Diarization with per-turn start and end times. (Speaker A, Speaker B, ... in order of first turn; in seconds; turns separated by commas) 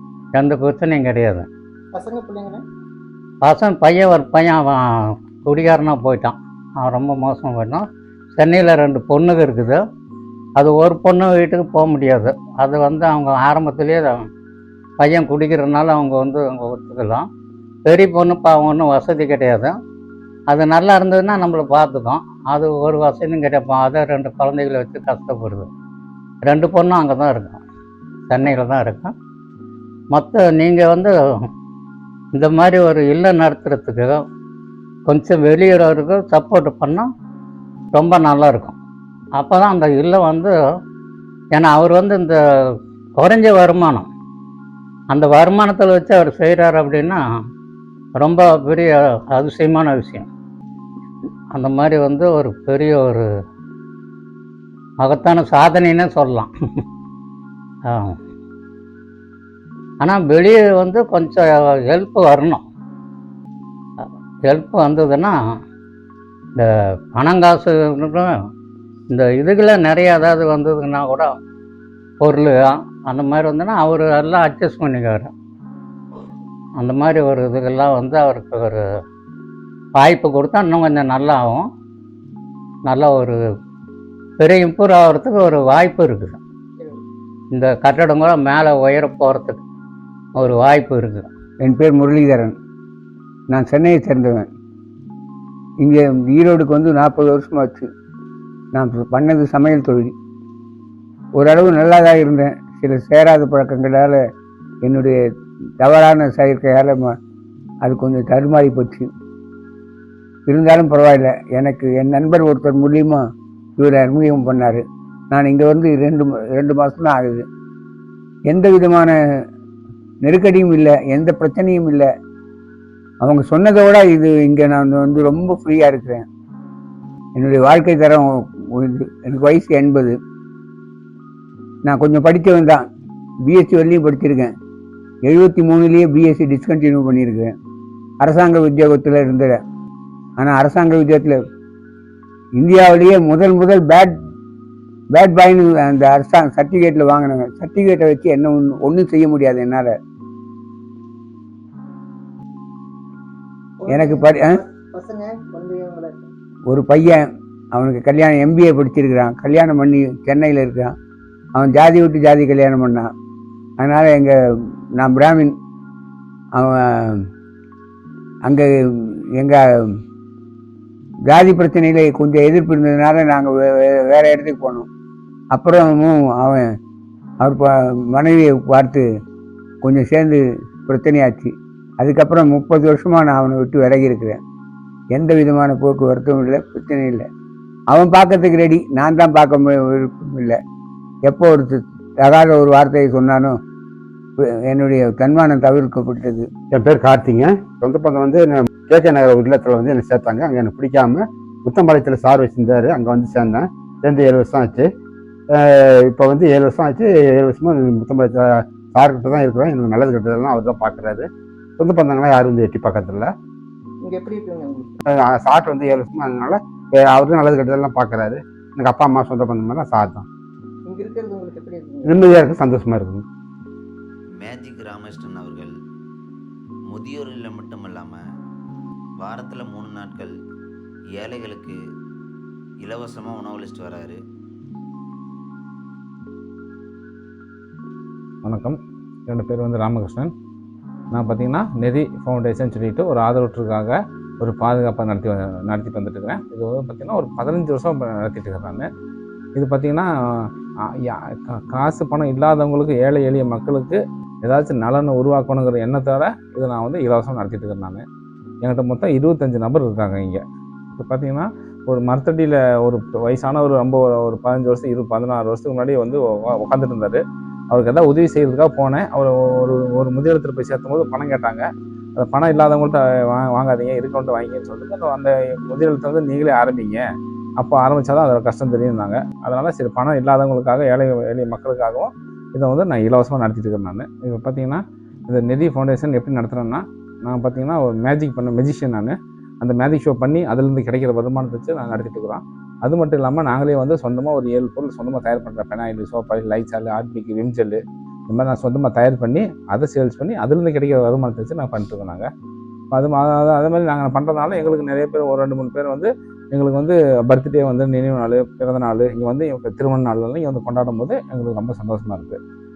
Speaker A: 0.3-1.5, Speaker B: 1.9-2.6, Speaker A: 3.4-4.8, Speaker A: 5.4-7.8, Speaker A: 8.4-9.8, Speaker A: 10.6-14.2, Speaker A: 15.0-17.2, Speaker A: 17.9-19.7, Speaker A: 20.5-25.7, Speaker A: 26.4-27.6, Speaker A: 28.3-29.1, Speaker A: 30.1-31.1, Speaker A: 32.3-34.2, Speaker A: 35.1-37.1, Speaker A: 37.9-38.8, Speaker A: 39.4-40.5, Speaker A: 41.5-42.4, Speaker A: 43.2-44.1, Speaker A: 45.1-47.2, Speaker A: 48.2-50.3, Speaker A: 51.5-53.2, Speaker A: 55.0-56.5, Speaker A: 57.9-58.2, Speaker A: 60.0-62.6, Speaker A: 64.5-65.3, Speaker A: 66.5-68.3, Speaker A: 69.1-71.3, Speaker A: 72.2-75.3, Speaker A: 76.8-78.8, Speaker A: 80.0-81.7, Speaker A: 82.9-83.4, Speaker A: 84.4-86.4, Speaker A: 87.5-89.6, Speaker A: 90.3-91.3, Speaker C: 91.6-92.5, Speaker C: 93.5-94.5, Speaker C: 95.8-97.9, Speaker C: 98.7-100.1, Speaker C: 101.4-104.2, Speaker C: 104.8-105.1, Speaker C: 105.8-107.1, Speaker C: 107.8-109.1, Speaker C: 110.5-113.2, Speaker C: 113.8-117.4, Speaker C: 118.5-119.1, Speaker C: 120.2-122.0, Speaker C: 123.2-126.2, Speaker C: 127.4-130.1, Speaker C: 131.8-132.8, Speaker C: 133.5-134.5, Speaker C: 135.2-137.5, Speaker C: 138.2-139.6, Speaker C: 140.4-141.4, Speaker C: 142.6-144.1, Speaker C: 145.1-149.9, Speaker B: 153.8-156.3, Speaker C: 153.9-154.6, Speaker C: 156.7-157.2, Speaker C: 157.7-160.9, Speaker C: 161.6-163.1, Speaker C: 163.8-164.3, Speaker C: 165.0-165.5, Speaker C: 166.6-167.2, Speaker C: 168.4-170.0, Speaker C: 171.3-174.9, Speaker C: 175.5-176.6, Speaker C: 177.4-179.0, Speaker C: 179.8-184.4, Speaker C: 185.1-187.2, Speaker C: 187.9-190.6, Speaker C: 191.3-193.6, Speaker C: 194.7-196.5, Speaker D: 196.7-204.9, Speaker D: 205.5-211.3, Speaker D: 211.8-213.3, Speaker B: 214.0-214.9, Speaker D: 215.1-220.3, Speaker B: 220.8-222.3, Speaker D: 222.0-223.2, Speaker E: 224.4-225.7, Speaker E: 226.9-228.2, Speaker E: 229.2-230.3, Speaker E: 231.2-231.8, Speaker E: 232.8-234.2, Speaker F: 238.4-238.8, Speaker F: 239.3-240.3, Speaker F: 241.1-248.9, Speaker F: 249.5-250.1, Speaker F: 250.8-258.0, Speaker F: 258.6-260.4, Speaker F: 260.9-271.6, Speaker F: 272.1-277.0, Speaker F: 277.6-302.3, Speaker F: 302.9-312.4